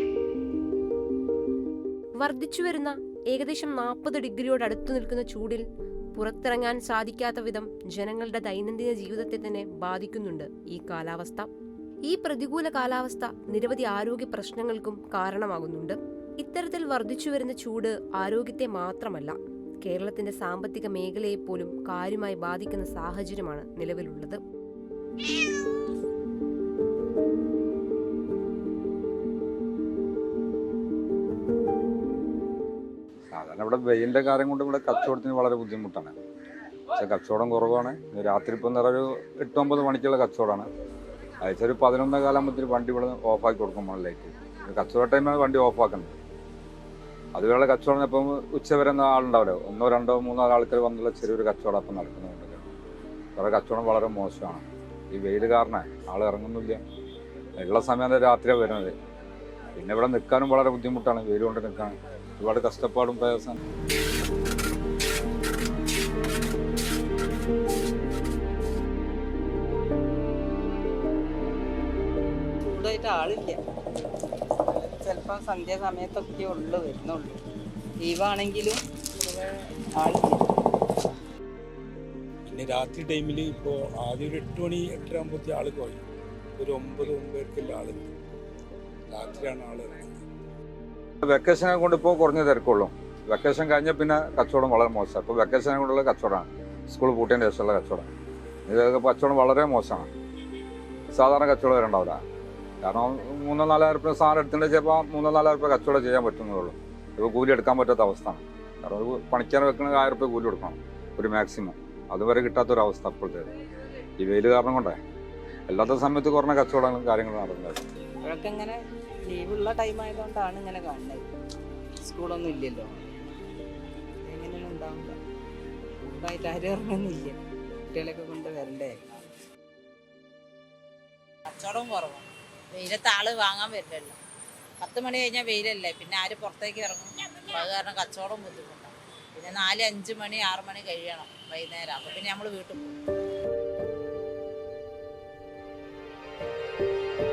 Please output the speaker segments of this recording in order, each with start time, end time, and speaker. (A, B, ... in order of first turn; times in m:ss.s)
0:02.2-0:11.5 A
0:12.0-0:24.4 A
0:33.3-0:36.1 B
0:36.9-0:40.7 B
0:41.4-0:46.2 B
0:47.3-0:52.7 B
0:53.4-0:56.8 B
0:57.6-0:58.9 B
0:59.8-1:03.6 B
1:12.6-1:13.6 C
1:14.6-1:17.4 C
1:18.0-1:20.4 C
1:22.5-1:26.0 D
1:26.6-1:28.1 D
1:29.1-1:30.0 D
1:31.2-1:38.1 B
1:38.7-1:40.1 B
1:41.1-1:42.2 B
1:42.8-1:53.5 B
1:54.2-1:55.0 B
1:55.7-1:57.8 B
1:58.2-2:01.3 C
2:02.0-2:03.0 C
2:04.2-2:05.2 C
2:06.0-2:07.4 C
2:07.9-2:09.0 C
2:11.5-2:14.2 E
2:14.8-2:22.9 E